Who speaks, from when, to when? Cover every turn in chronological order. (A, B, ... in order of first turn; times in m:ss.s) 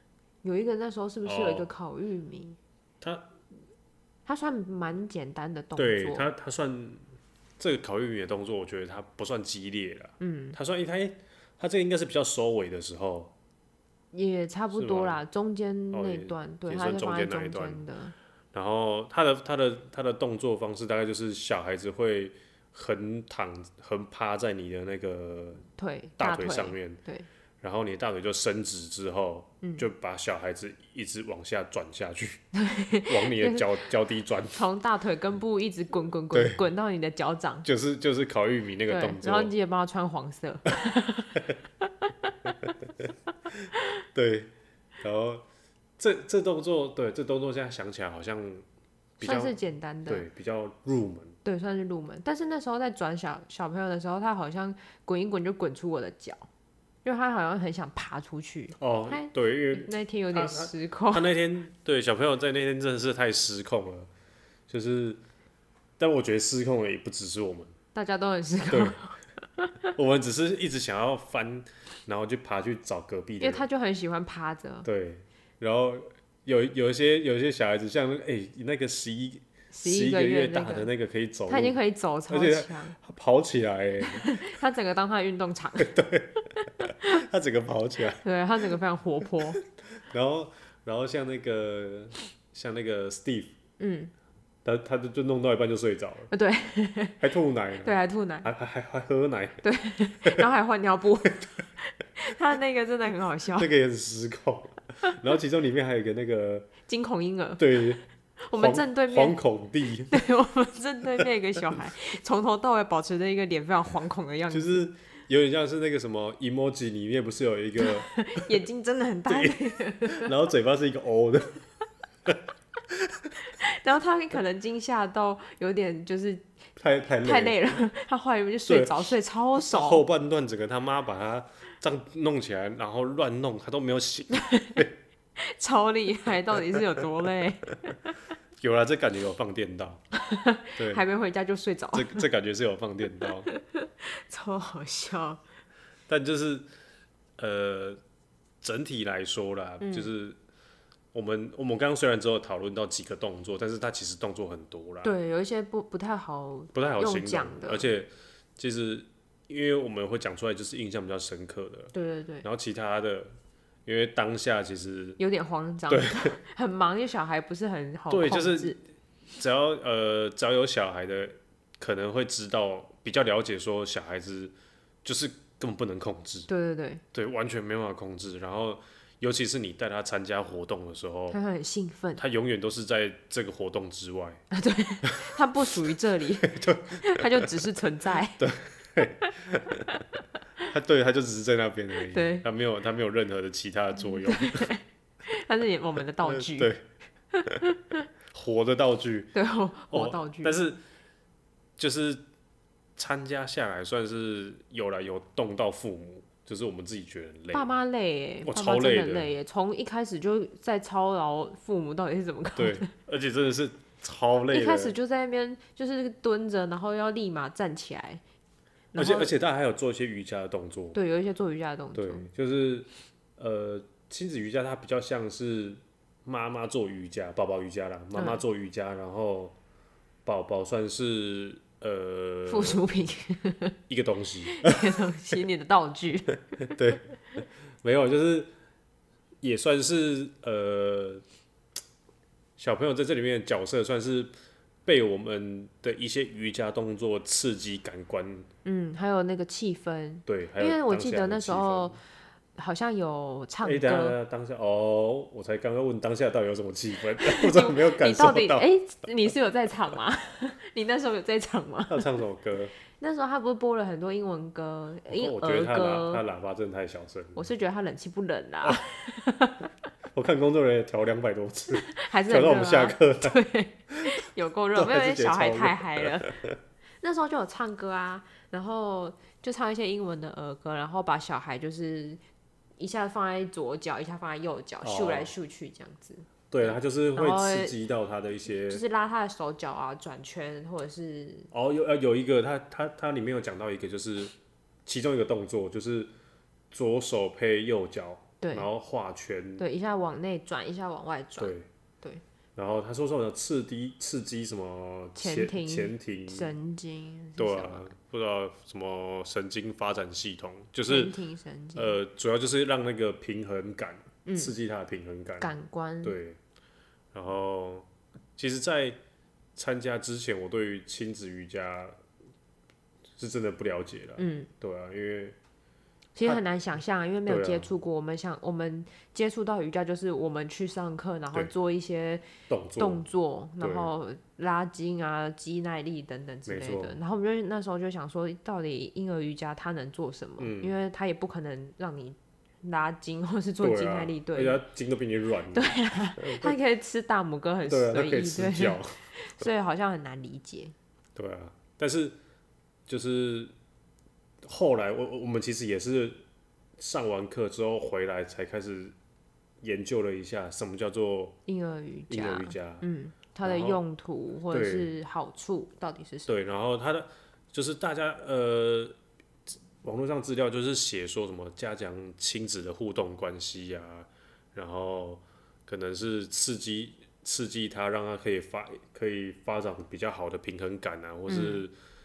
0:00.4-0:02.6 A
0:01.2-0:01.7 B
0:03.0-0:03.3 B
0:04.3-0:06.3 A
0:05.8-0:07.0 B
0:07.6-0:13.3 B
0:10.2-0:10.6 A
0:14.1-0:18.1 A
0:14.7-0:15.2 B
0:15.9-0:17.8 B
0:18.5-0:25.6 B
0:25.8-0:27.3 A
0:26.2-0:27.0 B
0:27.6-0:32.4 B
0:32.5-0:33.6 A
0:33.1-0:34.6 B
0:34.5-0:37.7 A
0:36.3-0:36.6 B
0:37.6-0:39.5 B
0:38.9-0:42.3 A
0:43.5-0:45.4 B
0:46.0-0:48.6 B
0:49.2-0:49.6 B
0:49.2-0:50.3 A
0:50.1-0:51.4 B
0:51.4-0:56.5 A
0:57.0-1:01.2 A
0:58.8-1:04.1 B
1:04.7-1:05.2 B
1:06.0-1:07.7 B
1:07.9-1:09.9 A
1:08.7-1:09.0 B
1:10.0-1:13.6 B
1:13.4-1:14.9 A
1:14.8-1:21.8 B
1:19.7-1:20.9 A
1:21.5-1:23.0 A
1:22.3-1:24.4 B
1:24.0-1:25.9 A
1:25.8-1:28.2 B
1:28.2-1:29.6 A
1:30.0-1:33.5 B
1:33.8-1:34.1 A
1:34.6-1:36.3 B
1:36.3-1:37.2 A
1:37.2-1:39.6 B
1:37.8-1:38.5 A
1:39.6-1:43.7 A
1:43.6-1:46.7 B
1:46.8-1:47.8 A
1:47.6-1:48.0 B
1:48.4-1:49.4 A
1:48.5-1:50.2 B
1:50.1-1:54.9 A
1:54.5-1:58.5 B
1:57.8-2:00.3 A
1:59.3-2:01.6 B
2:02.3-2:03.3 B
2:03.4-2:06.5 A
2:06.8-2:07.8 B
2:07.2-2:10.0 A
2:08.7-2:09.0 B
2:09.6-2:14.9 B
2:14.4-2:14.8 A
2:15.4-2:18.1 A
2:18.6-2:20.0 B
2:20.1-2:22.2 A
2:20.8-2:21.0 B
2:21.9-2:23.5 B
2:23.2-2:25.4 A
2:26.1-2:26.7 B
2:27.4-2:28.0 B
2:28.6-2:30.4 B
2:29.8-2:30.1 A
2:31.1-2:35.1 B
2:35.0-2:37.9 A
2:36.7-2:43.4 B
2:41.9-2:42.5 A
2:43.9-2:45.2 B
2:45.2-2:48.8 A
2:45.9-2:46.4 B
2:48.1-2:48.8 B
2:49.4-2:56.5 B
2:56.5-2:57.0 A
2:57.1-3:01.4 B
3:01.3-3:02.2 A
3:02.2-3:04.4 B
3:04.5-3:08.4 A
3:05.1-3:05.3 B
3:06.4-3:07.5 B
3:08.4-3:09.9 B
3:10.6-3:14.7 B
3:12.1-3:12.5 A
3:14.0-3:16.7 A
3:16.2-3:16.8 B
3:17.3-3:18.0 A
3:18.3-3:19.3 B
3:19.3-3:20.6 A
3:19.9-3:20.8 B
3:21.8-3:22.2 B
3:23.0-3:27.7 B
3:27.5-3:32.9 A
3:28.4-3:29.3 B
3:32.6-3:35.0 B
3:34.5-3:38.2 A
3:38.9-3:39.3 A
3:39.0-3:41.0 B
3:40.9-3:42.3 A
3:41.9-3:49.6 B
3:48.1-3:48.4 A
3:50.2-3:52.8 B
3:52.5-3:53.8 A
3:53.9-3:54.9 B
3:54.5-3:56.8 A
3:56.6-3:57.1 B
3:57.8-3:58.5 B
3:59.4-4:01.2 B
4:02.6-4:04.3 B
4:04.8-4:08.5 B
4:08.6-4:12.0 A
4:10.3-4:12.0 B
4:12.6-4:14.2 A
4:13.6-4:18.7 B
4:17.2-4:22.1 A
4:21.9-4:22.7 B
4:22.9-4:26.2 A
4:25.1-4:27.4 B
4:27.4-4:29.7 A
4:30.1-4:33.4 B
4:31.9-4:36.4 A
4:34.8-4:36.6 B
4:37.0-4:42.2 A
4:42.8-4:47.8 A
4:44.8-4:45.3 B
4:46.5-4:48.8 B
4:48.7-4:51.5 A
4:51.5-4:54.3 B
4:54.9-4:56.1 B
4:56.7-4:59.6 B
4:58.4-4:58.7 A
4:59.6-5:02.2 A
5:01.4-5:01.7 B
5:02.6-5:06.5 B
5:05.2-5:07.9 A
5:07.4-5:11.1 B
5:10.9-5:12.0 A
5:11.8-5:16.4 B
5:14.2-5:14.5 A
5:15.4-5:16.2 A
5:17.1-5:19.0 B
5:19.6-5:22.0 B
5:23.2-5:25.4 B
5:24.2-5:24.5 A
5:26.2-5:44.6 A
5:27.3-5:27.7 B
5:32.5-5:33.0 B
5:33.6-5:33.9 B
5:36.5-5:37.0 B
5:40.4-5:40.7 B
5:43.6-5:46.6 B
5:45.5-5:50.7 A
5:47.6-5:49.0 B
5:51.2-5:52.2 B
5:52.9-5:53.5 B
5:54.4-5:56.2 B
5:56.8-5:59.0 B
5:59.6-6:01.4 B
6:01.5-6:06.3 A
6:02.1-6:02.9 B
6:03.4-6:03.8 B
6:04.5-6:04.9 B
6:06.3-6:09.0 B
6:09.8-6:21.7 B
6:21.3-6:21.6 A